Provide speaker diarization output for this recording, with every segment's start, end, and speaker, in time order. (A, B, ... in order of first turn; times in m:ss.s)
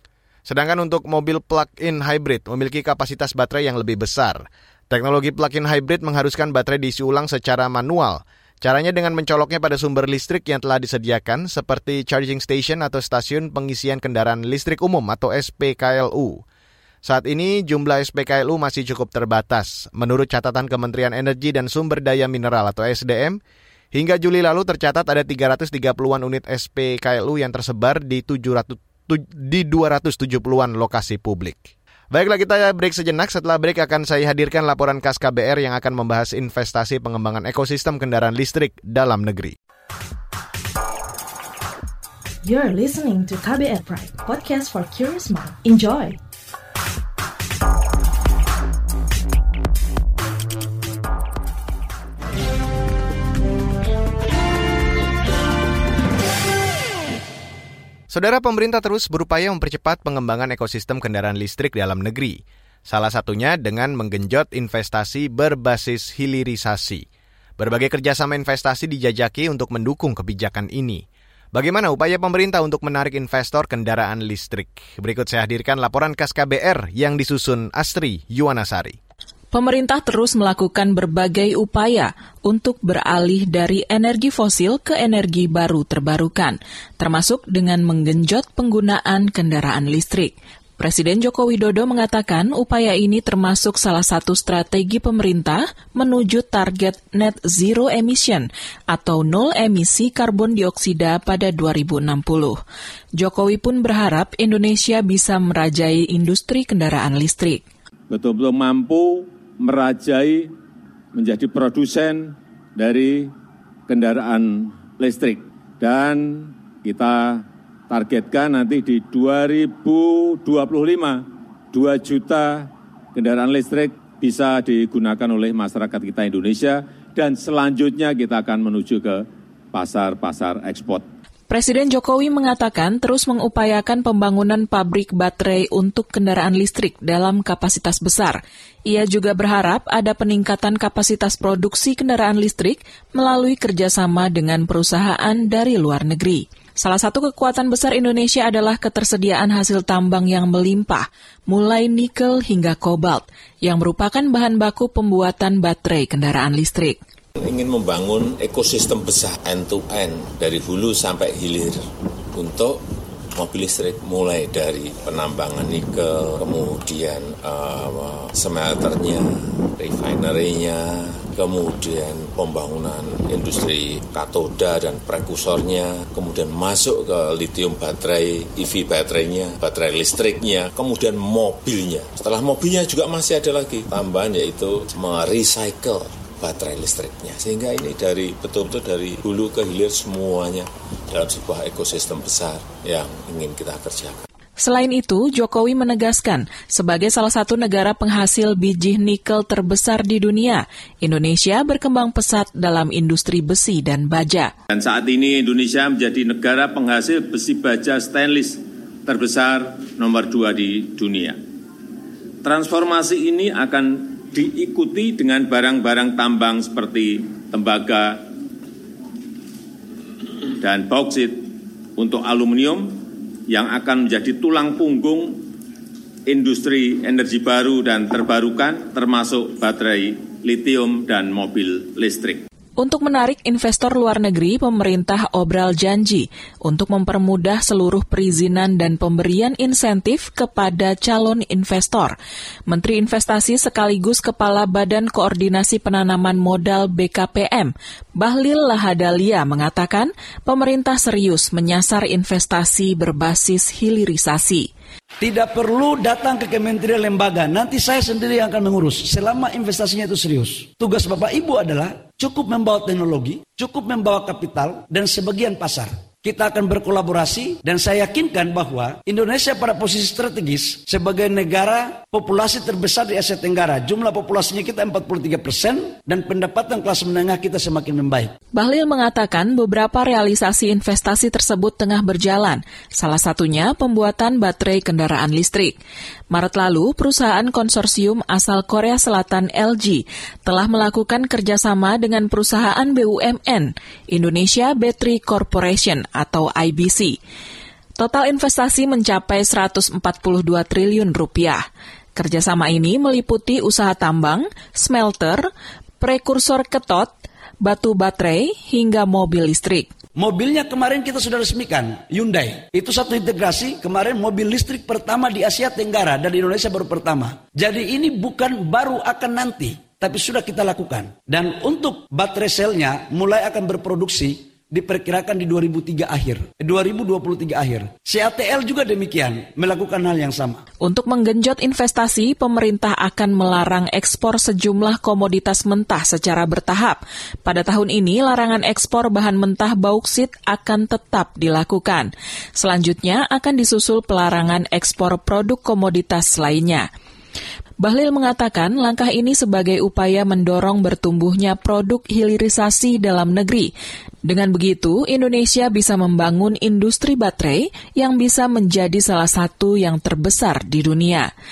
0:00.4-0:16.4 A
0:17.0-0:23.4 A
0:23.9-0:39.5 A
0:42.4-0:46.2 B
0:58.1-1:07.0 A
1:07.6-1:19.0 A
1:19.5-1:42.6 C
1:43.2-1:47.6 C
1:48.1-1:50.5 D
1:51.1-1:53.3 D
1:53.9-2:11.0 D
2:11.5-2:37.0 C
2:37.4-3:14.2 E
3:14.6-3:24.5 C
3:24.7-3:31.4 D
3:32.4-3:38.3 D
3:40.6-3:45.5 D
3:46.3-3:52.4 D
3:52.8-4:02.2 C
4:02.7-4:14.7 C
4:15.2-4:38.3 F
4:38.5-4:45.8 C
4:46.3-4:57.2 C
4:58.0-5:01.6 C
5:02.2-5:09.9 C
5:10.2-5:30.6 F
5:30.8-5:46.9 C
5:47.8-5:53.7 C
5:54.2-6:01.3 C